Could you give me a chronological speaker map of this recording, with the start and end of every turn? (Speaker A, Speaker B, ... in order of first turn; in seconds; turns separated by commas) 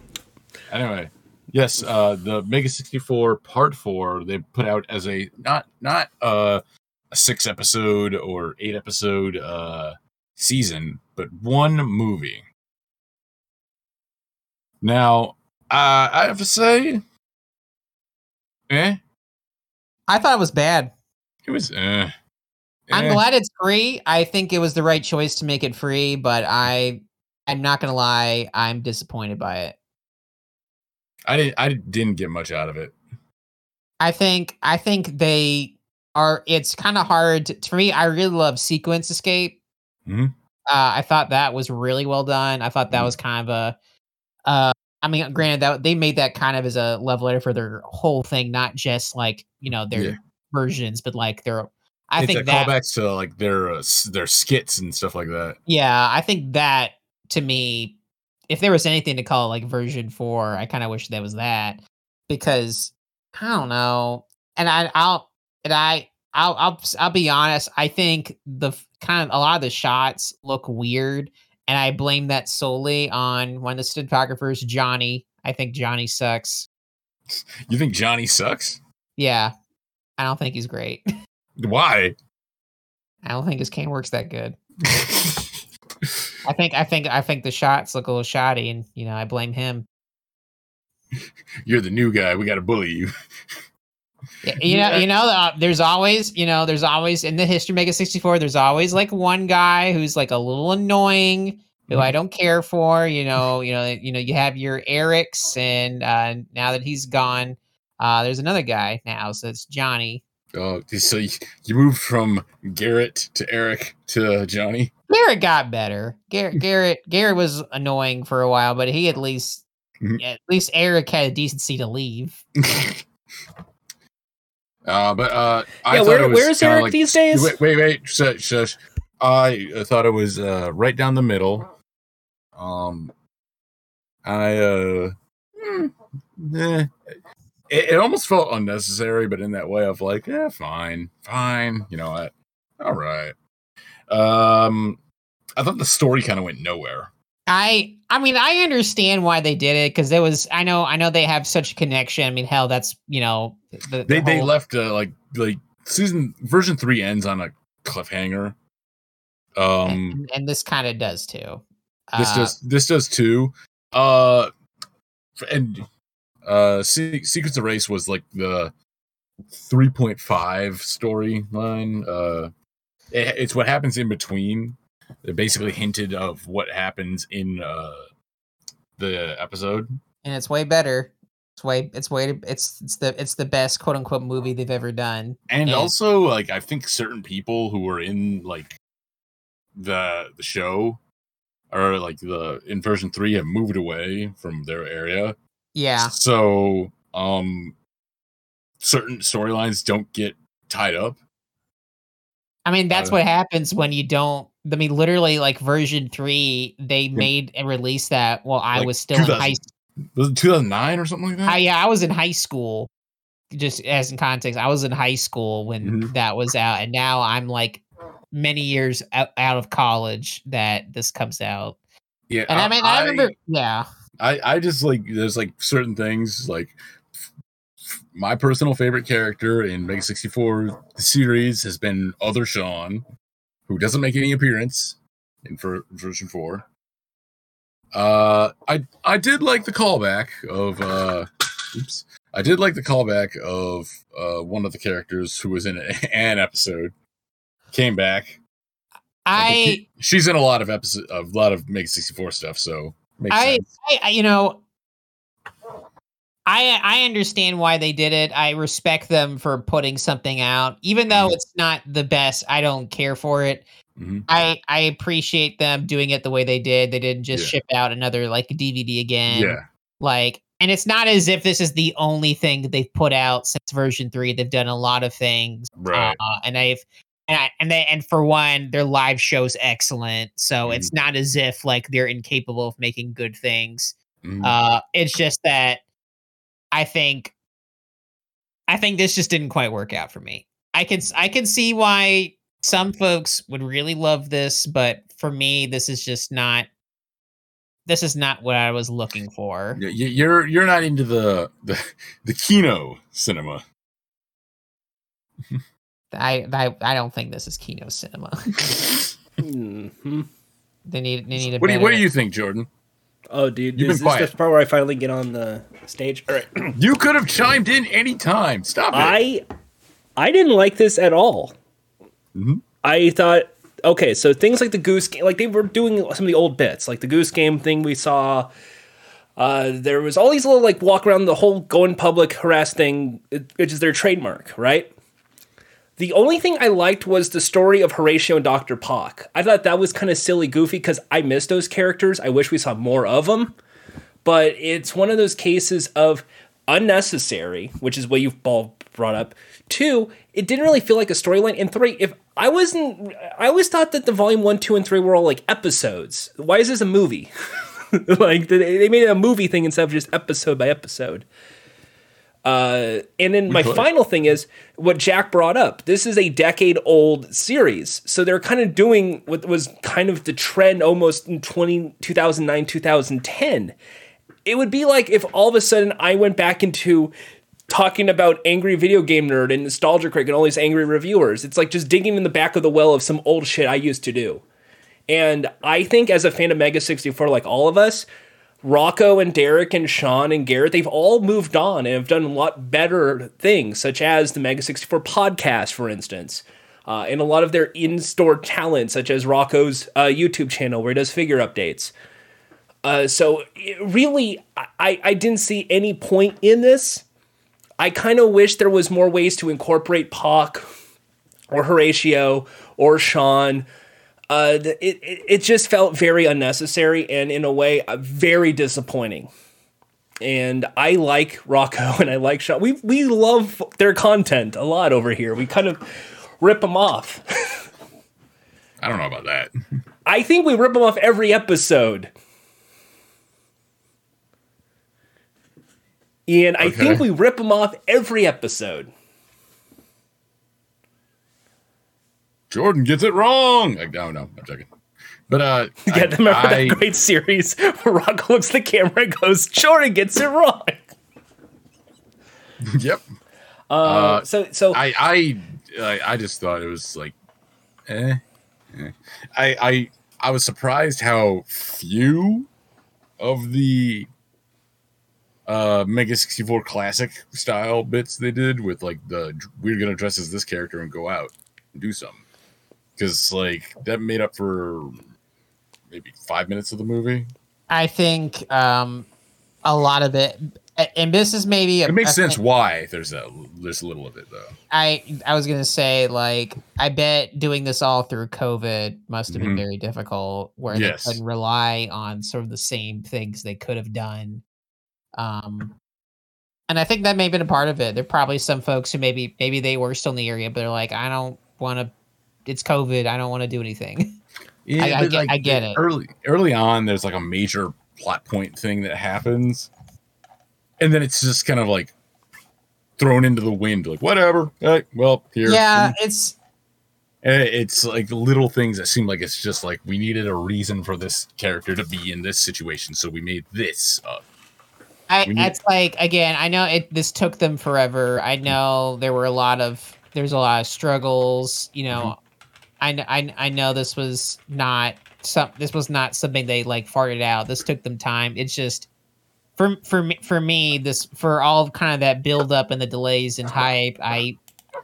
Speaker A: 0.7-12.4, Speaker A: 14.8-17.0, Speaker A: 18.7-19.0, Speaker B: 20.1-20.9, Speaker A: 21.5-22.1, Speaker A: 22.9-23.2, Speaker B: 22.9-29.8, Speaker A: 31.3-33.0, Speaker B: 34.0-39.6, Speaker A: 40.1-40.3, Speaker B: 40.7-43.8, Speaker B: 44.5-52.7, Speaker A: 52.2-55.6, Speaker B: 55.7-58.0, Speaker B: 58.5-76.7, Speaker A: 77.3-78.8, Speaker B: 79.2-79.5, Speaker B: 80.2-81.0, Speaker A: 81.6-82.2, Speaker B: 83.2-84.6, Speaker A: 84.9-85.5, Speaker B: 86.4-89.9, Speaker A: 91.7-93.1, Speaker B: 94.4-110.2, Speaker A: 94.6-95.1, Speaker A: 101.9-102.1, Speaker A: 110.5-114.9, Speaker B: 115.1-119.6, Speaker B: 120.2-122.4, Speaker A: 122.6-123.0, Speaker A: 124.9-131.7, Speaker C: 125.9-127.6, Speaker A: 132.6-133.1, Speaker A: 134.2-136.9, Speaker A: 137.7-143.3, Speaker A: 144.1-145.0, Speaker A: 145.6-147.1, Speaker B: 147.5-154.5, Speaker A: 154.1-158.6, Speaker A: 159.6-160.2, Speaker B: 159.9-162.6, Speaker A: 162.2-164.5, Speaker A: 165.4-165.9, Speaker A: 166.4-168.7, Speaker A: 169.5-172.5, Speaker A: 173.1-178.1, Speaker A: 179.0-179.9, Speaker B: 180.2-185.9, Speaker A: 185.5-188.8, Speaker A: 189.8-191.0, Speaker A: 191.7-195.4, Speaker B: 195.8-196.1, Speaker A: 196.0-197.8, Speaker A: 198.8-201.2, Speaker B: 202.7-209.6, Speaker A: 202.9-203.2, Speaker A: 208.7-209.6, Speaker A: 210.2-211.6, Speaker B: 211.5-212.9, Speaker B: 213.5-221.8, Speaker A: 215.8-216.1, Speaker A: 222.3-223.3, Speaker B: 222.5-223.9, Speaker A: 224.2-226.8, Speaker A: 227.9-233.1, Speaker A: 233.7-236.7, Speaker A: 237.9-246.9, Speaker A: 247.7-248.4, Speaker B: 249.2-249.8, Speaker A: 249.4-253.7, Speaker B: 253.3-254.6, Speaker B: 256.5-263.6, Speaker A: 261.1-261.4, Speaker A: 264.0-264.3, Speaker B: 264.3-285.8, Speaker A: 267.3-267.6, Speaker A: 269.3-269.6, Speaker A: 275.8-276.2, Speaker A: 280.6-280.9, Speaker A: 284.2-284.6, Speaker B: 286.7-287.3, Speaker B: 288.7-296.7, Speaker B: 297.9-299.8, Speaker A: 299.8-303.6, Speaker B: 306.1-308.7, Speaker C: 309.4-310.3, Speaker B: 310.9-312.1, Speaker A: 311.6-312.7, Speaker C: 313.3-316.7, Speaker A: 313.8-314.3, Speaker A: 316.7-319.2, Speaker C: 318.9-319.4, Speaker C: 320.2-321.5, Speaker A: 322.4-322.6, Speaker C: 322.8-328.5, Speaker C: 329.4-334.9, Speaker C: 336.0-343.6, Speaker C: 344.2-357.3, Speaker C: 357.9-361.3, Speaker C: 362.4-373.8, Speaker A: 363.5-363.9, Speaker C: 374.4-377.1, Speaker C: 377.7-384.4, Speaker C: 385.1-388.1, Speaker C: 388.6-401.9, Speaker C: 402.8-407.0, Speaker C: 407.8-410.7, Speaker C: 411.5-413.7, Speaker C: 414.3-419.3, Speaker C: 420.2-425.9, Speaker C: 426.4-427.6, Speaker A: 428.8-429.5, Speaker C: 430.1-432.1, Speaker C: 436.3-438.9, Speaker A: 436.6-437.0, Speaker A: 442.5-444.7, Speaker A: 445.3-446.8, Speaker C: 445.9-450.9, Speaker A: 452.7-453.0, Speaker C: 453.7-454.8, Speaker A: 453.8-457.1, Speaker A: 457.9-458.2, Speaker A: 458.7-462.5, Speaker A: 463.2-464.1, Speaker A: 465.5-472.2, Speaker A: 473.0-475.0, Speaker A: 475.9-477.3, Speaker B: 477.7-479.1, Speaker B: 479.6-482.4, Speaker A: 481.9-484.6, Speaker B: 484.7-494.4, Speaker A: 489.3-489.6, Speaker A: 490.7-491.2, Speaker B: 495.1-495.8, Speaker B: 496.7-501.9, Speaker B: 502.5-504.2, Speaker A: 504.7-509.7, Speaker B: 504.8-505.8, Speaker A: 510.8-511.9, Speaker A: 513.0-516.0, Speaker B: 515.4-516.4, Speaker A: 517.2-524.2, Speaker B: 525.1-532.2, Speaker A: 525.2-525.5, Speaker B: 532.8-538.9, Speaker B: 539.6-544.4